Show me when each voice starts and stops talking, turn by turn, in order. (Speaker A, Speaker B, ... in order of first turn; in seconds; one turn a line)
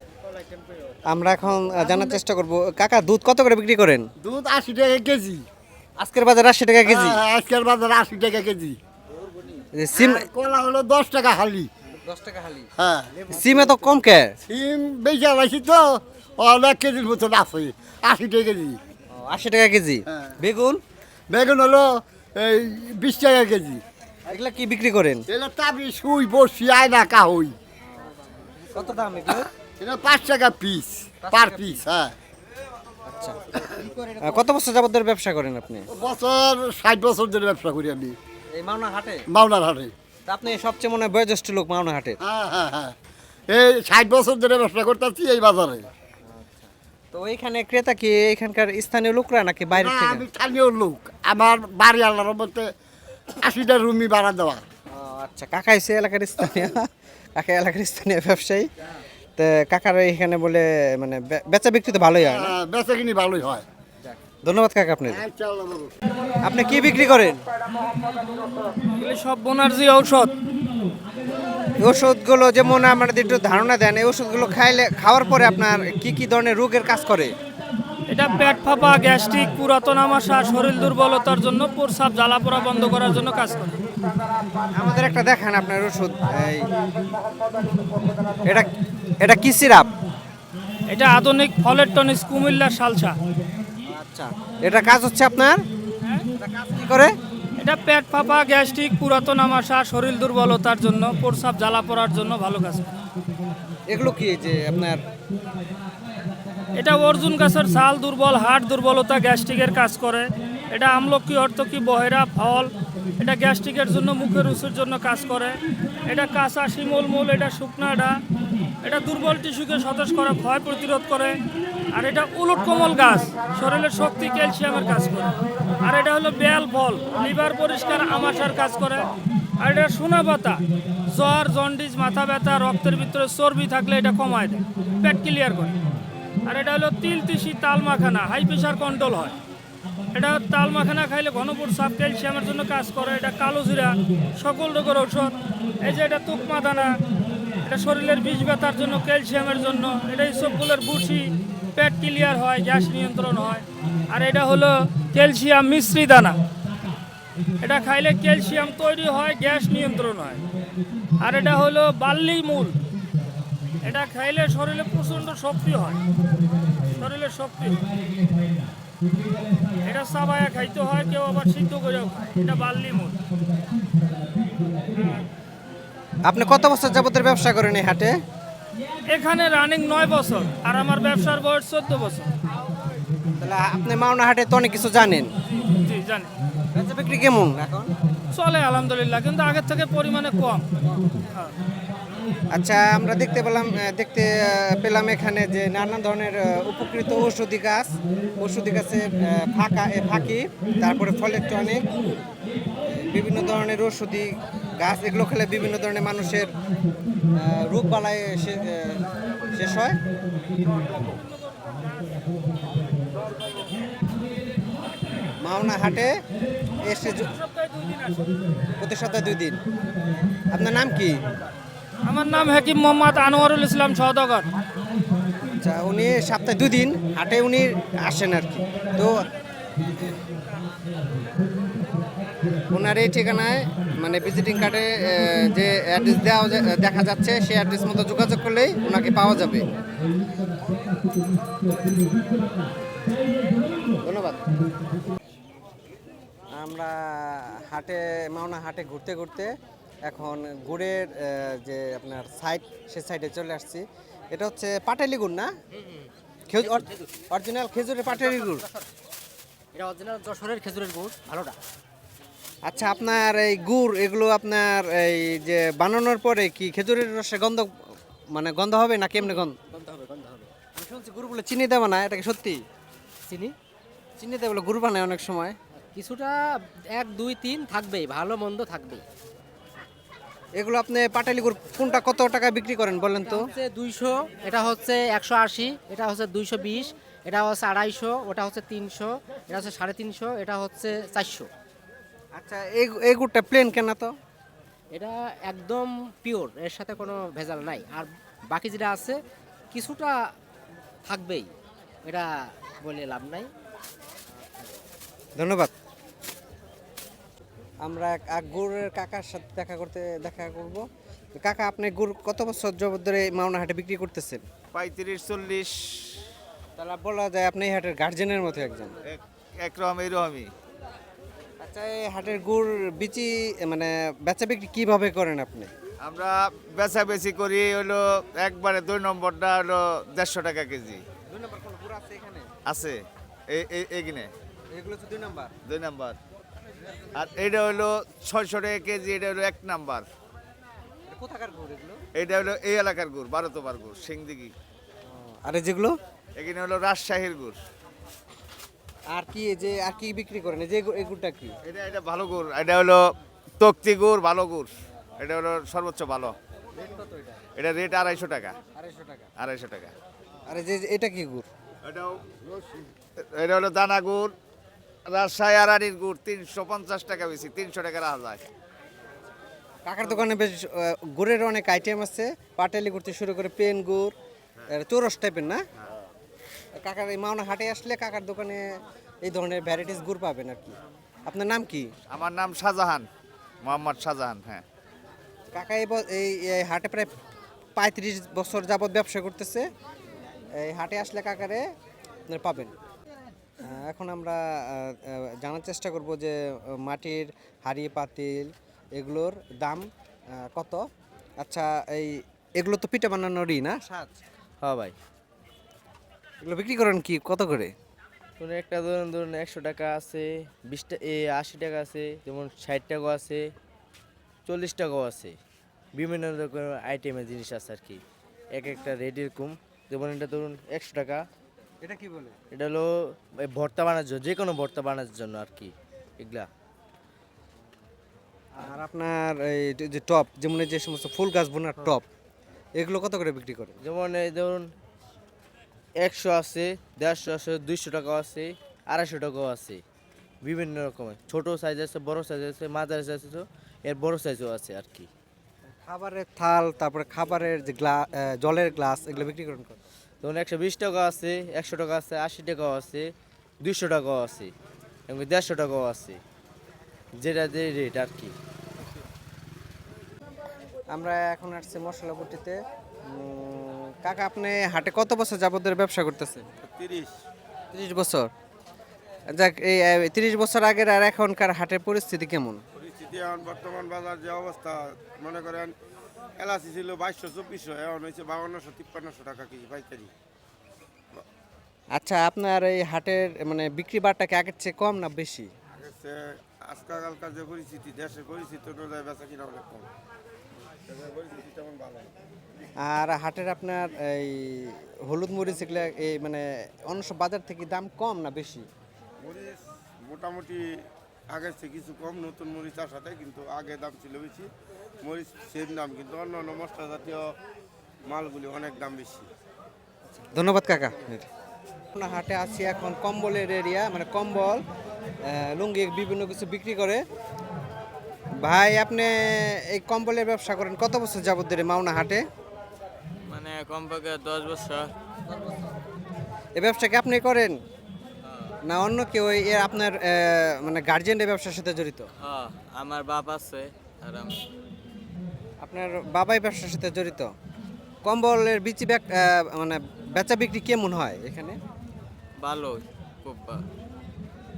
Speaker A: 1.1-4.1
Speaker B: 4.2-5.4
Speaker A: 6.0-7.2
Speaker B: 6.9-8.8
Speaker A: 9.8-10.3
Speaker B: 9.9-11.7
Speaker A: 12.0-12.7
Speaker B: 12.8-13.2
Speaker A: 13.3-14.4
Speaker B: 14.5-18.8
Speaker A: 19.1-20.8
Speaker B: 21.3-23.8
Speaker A: 24.3-25.2
Speaker B: 25.3-27.5
Speaker A: 28.7-29.5
Speaker B: 29.8-32.2
Speaker A: 31.2-31.8
Speaker A: 33.1-33.4
Speaker B: 33.8-34.0
Speaker A: 34.2-35.9
Speaker B: 35.9-38.1
Speaker A: 38.5-39.2
Speaker B: 39.3-39.9
Speaker A: 40.3-42.2
Speaker B: 42.2-43.0
Speaker B: 43.5-45.9
Speaker A: 46.3-50.2
Speaker B: 49.8-52.7
Speaker B: 53.4-54.6
Speaker A: 54.9-58.7
Speaker A: 59.4-62.6
Speaker B: 62.3-63.6
Speaker A: 64.0-65.2
Speaker B: 65.1-65.9
Speaker A: 66.4-67.4
Speaker C: 69.0-70.3
Speaker A: 71.8-77.3
Speaker C: 78.1-83.8
Speaker A: 84.7-86.7
Speaker A: 88.5-89.9
Speaker C: 90.9-93.2
Speaker A: 93.9-95.6
Speaker A: 96.4-97.2
Speaker C: 97.6-102.9
Speaker A: 103.9-105.0
Speaker C: 106.8-118.2
Speaker C: 118.8-121.4
Speaker C: 121.9-135.8
Speaker C: 136.5-139.3
Speaker C: 140.1-146.9
Speaker C: 147.7-156.4
Speaker C: 157.6-160.4
Speaker C: 161.2-162.8
Speaker C: 163.8-166.0
Speaker C: 167.0-167.8
Speaker C: 169.8-173.2
Speaker C: 174.9-175.2
Speaker A: 176.2-178.2
Speaker C: 179.1-182.3
Speaker A: 183.4-185.3
Speaker C: 185.5-186.3
Speaker A: 186.7-187.9
Speaker C: 188.3-190.7
Speaker A: 192.5-201.9
Speaker A: 202.8-206.5
Speaker A: 207.3-210.0
Speaker A: 215.4-216.1
Speaker A: 216.8-217.3
Speaker C: 217.2-218.3
Speaker A: 218.8-219.6
Speaker A: 220.5-221.2
Speaker C: 222.1-224.5
Speaker A: 225.5-229.2
Speaker A: 232.7-239.7
Speaker A: 244.1-244.4
Speaker A: 246.5-249.5
Speaker A: 250.1-255.5
Speaker A: 256.5-258.6
Speaker D: 258.3-258.9
Speaker D: 259.7-261.6
Speaker A: 262.6-267.7
Speaker A: 268.3-269.6
Speaker D: 269.7-270.5
Speaker A: 270.8-272.6
Speaker D: 273.3-273.6
Speaker A: 274.2-275.6
Speaker D: 275.9-276.4
Speaker D: 276.9-279.0
Speaker A: 280.6-283.4
Speaker D: 283.2-291.5
Speaker A: 292.4-294.1
Speaker D: 294.9-299.2
Speaker D: 299.7-300.1
Speaker D: 301.1-301.5
Speaker D: 302.8-303.5
Speaker A: 305.4-305.7
Speaker A: 307.8-310.9
Speaker A: 311.4-314.4
Speaker E: 314.7-316.2
Speaker A: 316.8-318.9
Speaker E: 319.1-320.5
Speaker A: 321.6-325.7
Speaker E: 326.0-331.0
Speaker A: 331.3-332.5
Speaker E: 332.7-334.3
Speaker A: 334.7-335.5
Speaker E: 335.7-336.2
Speaker E: 337.2-340.1
Speaker A: 341.1-342.0
Speaker E: 342.2-344.5
Speaker A: 345.1-346.0
Speaker E: 346.4-347.6
Speaker A: 349.1-351.5
Speaker E: 351.6-353.0
Speaker E: 353.6-356.3
Speaker E: 357.6-358.5
Speaker A: 358.8-359.3
Speaker E: 359.4-359.9
Speaker A: 360.5-361.5
Speaker E: 361.8-362.2
Speaker E: 363.2-364.3
Speaker E: 365.1-368.5
Speaker A: 369.9-374.1
Speaker A: 374.7-375.6
Speaker A: 376.8-378.6
Speaker A: 379.2-381.9
Speaker E: 382.1-383.1
Speaker E: 383.6-384.6
Speaker A: 385.5-387.1
Speaker A: 387.8-389.7
Speaker A: 390.6-391.6
Speaker A: 392.3-392.7
Speaker A: 393.6-400.9
Speaker A: 401.4-404.1
Speaker F: 404.6-404.9
Speaker A: 406.4-407.7
Speaker F: 408.4-413.4
Speaker F: 414.5-415.4
Speaker F: 416.0-418.0
Speaker F: 418.6-421.2
Speaker A: 421.8-422.4
Speaker F: 422.5-422.9
Speaker F: 423.4-426.5
Speaker A: 428.6-432.1
Speaker A: 432.8-433.8
Speaker F: 433.8-434.7
Speaker F: 436.0-439.8
Speaker F: 440.4-445.1
Speaker A: 445.9-449.8
Speaker F: 450.2-453.1
Speaker F: 453.6-454.5
Speaker F: 455.1-456.2
Speaker F: 457.2-458.3
Speaker A: 460.9-466.5
Speaker G: 466.6-467.2
Speaker A: 467.7-468.3
Speaker A: 469.3-472.6
Speaker G: 472.7-475.8
Speaker G: 476.4-480.1
Speaker A: 481.9-485.5
Speaker G: 485.7-489.9
Speaker G: 490.9-492.1
Speaker A: 492.8-498.7
Speaker G: 499.2-500.6
Speaker G: 501.3-504.5
Speaker G: 505.0-507.3
Speaker G: 508.0-509.3
Speaker A: 510.1-511.3
Speaker A: 511.9-514.6
Speaker A: 515.2-517.0
Speaker A: 518.4-522.2
Speaker H: 523.3-524.9
Speaker A: 526.6-527.6
Speaker H: 528.2-528.6
Speaker A: 528.7-532.1
Speaker H: 532.2-534.4
Speaker A: 535.6-537.3
Speaker A: 538.0-541.6
Speaker H: 542.4-543.6